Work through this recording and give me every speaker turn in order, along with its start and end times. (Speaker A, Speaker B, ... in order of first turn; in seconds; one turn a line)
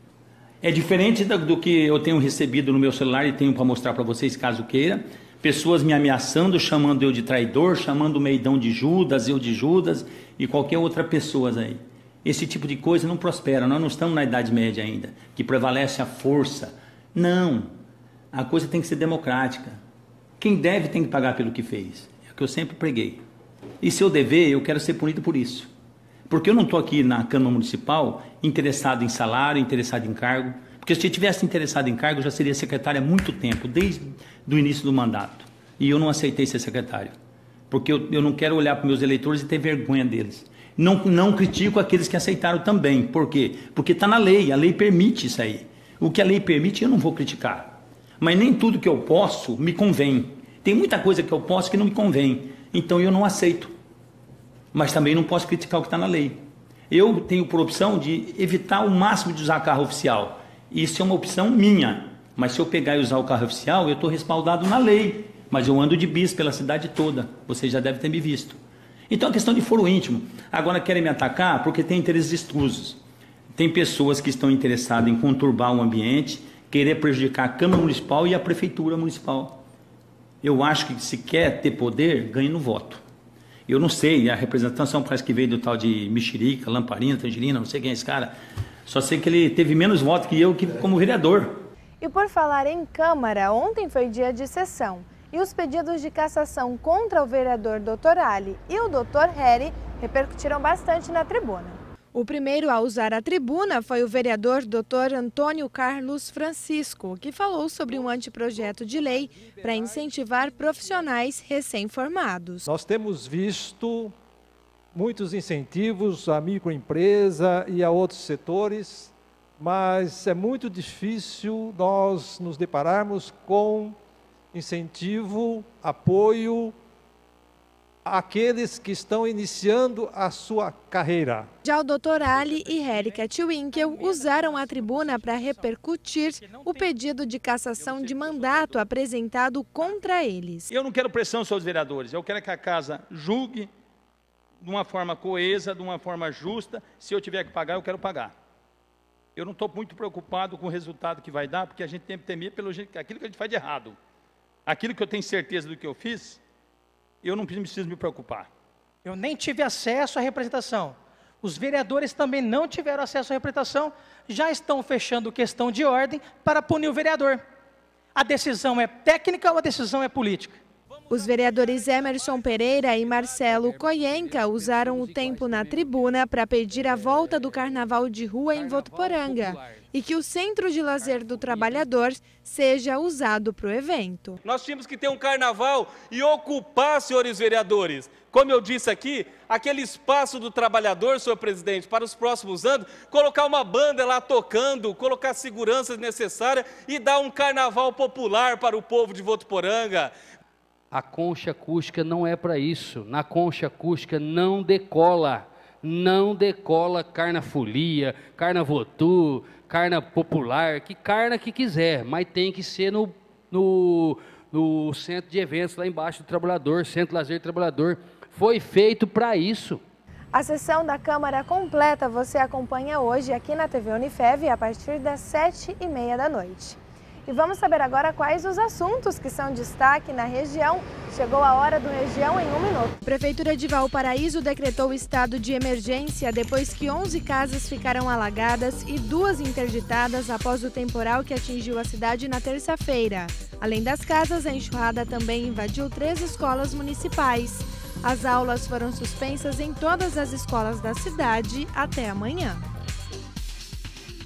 Speaker A: 0.6-17.7
Speaker A: 18.3-19.8
Speaker A: 20.4-23.2
Speaker A: 23.8-25.7
Speaker A: 26.3-37.1
Speaker A: 37.7-53.7
Speaker A: 54.7-56.4
Speaker A: 56.9-68.6
Speaker A: 69.1-73.0
Speaker A: 73.5-79.6
Speaker A: 80.4-83.0
Speaker A: 83.7-88.3
Speaker A: 88.9-91.6
Speaker B: 92.0-112.7
Speaker C: 112.7-114.1
Speaker C: 114.9-124.0
Speaker C: 124.5-126.7
Speaker C: 128.0-131.5
Speaker B: 131.6-140.7
Speaker D: 132.6-136.9
Speaker A: 140.7-143.7
Speaker A: 144.6-148.3
Speaker A: 149.3-154.0
Speaker A: 154.7-156.4
Speaker A: 157.2-158.5
Speaker D: 159.0-167.4
Speaker D: 168.1-170.6
Speaker B: 171.1-184.4
Speaker E: 173.5-176.1
Speaker E: 176.8-177.6
Speaker E: 178.5-179.8
Speaker E: 181.1-181.9
Speaker F: 184.5-200.1
Speaker E: 200.9-219.8
Speaker B: 220.3-252.7